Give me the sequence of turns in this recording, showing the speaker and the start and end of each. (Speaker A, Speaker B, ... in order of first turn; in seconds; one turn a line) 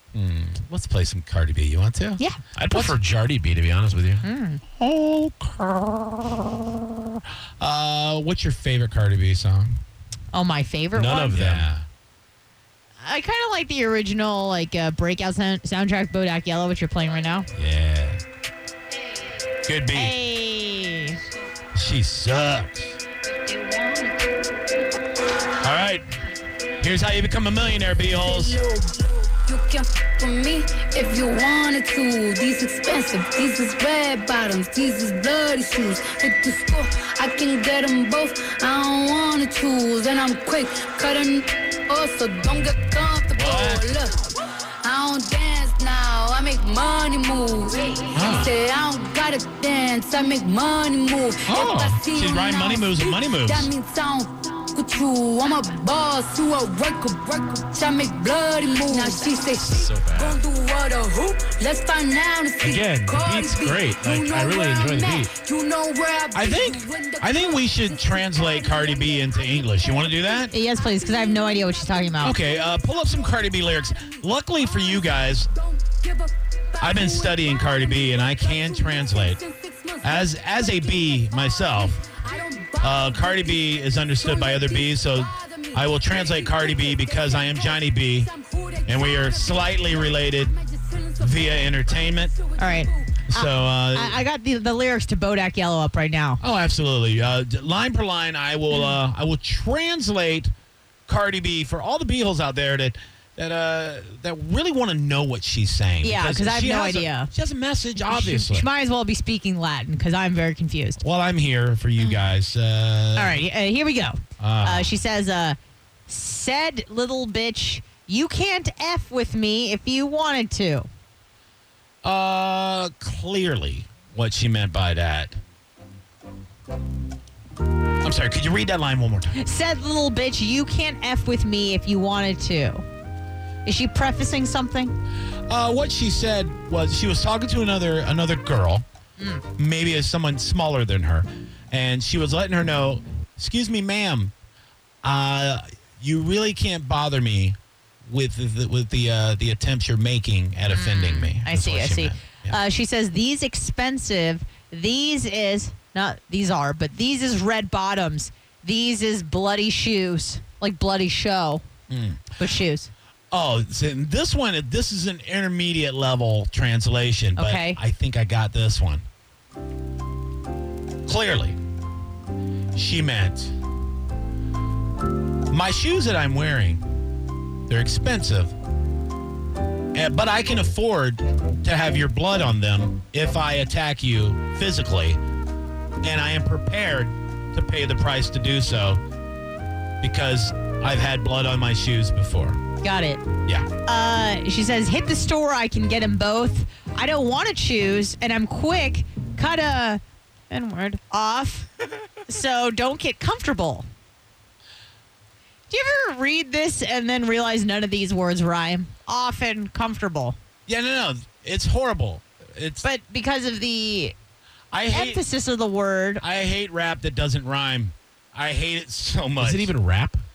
Speaker A: 0.1-3.0
Speaker B: 2.6-4.2
Speaker C: 4.2-4.6
Speaker A: 4.8-9.8
Speaker C: 10.3-11.4
Speaker B: 10.9-11.7
Speaker A: 11.3-11.9
Speaker C: 13.0-17.5
Speaker A: 17.5-18.2
Speaker A: 19.6-20.2
Speaker C: 19.9-21.2
Speaker A: 21.7-23.0
Speaker D: 23.2-24.4
Speaker A: 25.6-26.0
Speaker A: 26.8-28.6
Speaker D: 28.1-44.3
Speaker A: 43.4-43.9
Speaker D: 44.8-71.8
Speaker A: 48.1-48.5
Speaker A: 51.5-53.7
Speaker B: 59.6-60.4
Speaker B: 62.6-65.3
Speaker A: 66.3-70.5
Speaker C: 70.5-72.4
Speaker A: 72.2-75.5
Speaker D: 72.4-92.9
Speaker A: 76.8-79.4
Speaker A: 80.0-82.1
Speaker A: 82.8-88.3
Speaker A: 88.9-90.5
Speaker A: 91.2-92.4
Speaker C: 92.6-96.4
Speaker A: 93.3-94.2
Speaker A: 96.4-100.5
Speaker C: 98.7-99.0
Speaker A: 101.1-108.7
Speaker C: 106.0-107.3
Speaker C: 108.0-111.0
Speaker A: 111.0-113.4
Speaker C: 113.2-120.9
Speaker A: 114.4-115.0
Speaker A: 122.0-125.4
Speaker A: 128.0-129.4
Speaker C: 129.4-132.8
Speaker C: 133.7-135.0
Speaker A: 135.5-138.8
Speaker C: 139.2-139.4
Speaker A: 139.6-144.3
Speaker A: 145.0-152.6
Speaker C: 150.7-161.6
Speaker A: 161.9-162.3
Speaker C: 162.4-162.9
Speaker A: 163.3-169.1
Speaker C: 167.4-167.8
Speaker A: 171.1-171.6
Speaker A: 172.8-173.5
Speaker A: 175.5-176.9
Speaker A: 177.7-178.5
Speaker A: 179.9-185.2
Speaker A: 186.0-189.0
Speaker A: 190.0-192.6
Speaker C: 192.8-193.2
Speaker C: 193.8-201.7
Speaker C: 202.3-203.9
Speaker C: 205.7-210.4
Speaker A: 210.7-212.9
Speaker C: 212.8-214.2
Speaker A: 214.7-215.2
Speaker C: 214.9-216.2
Speaker A: 216.2-219.7
Speaker B: 219.4-220.2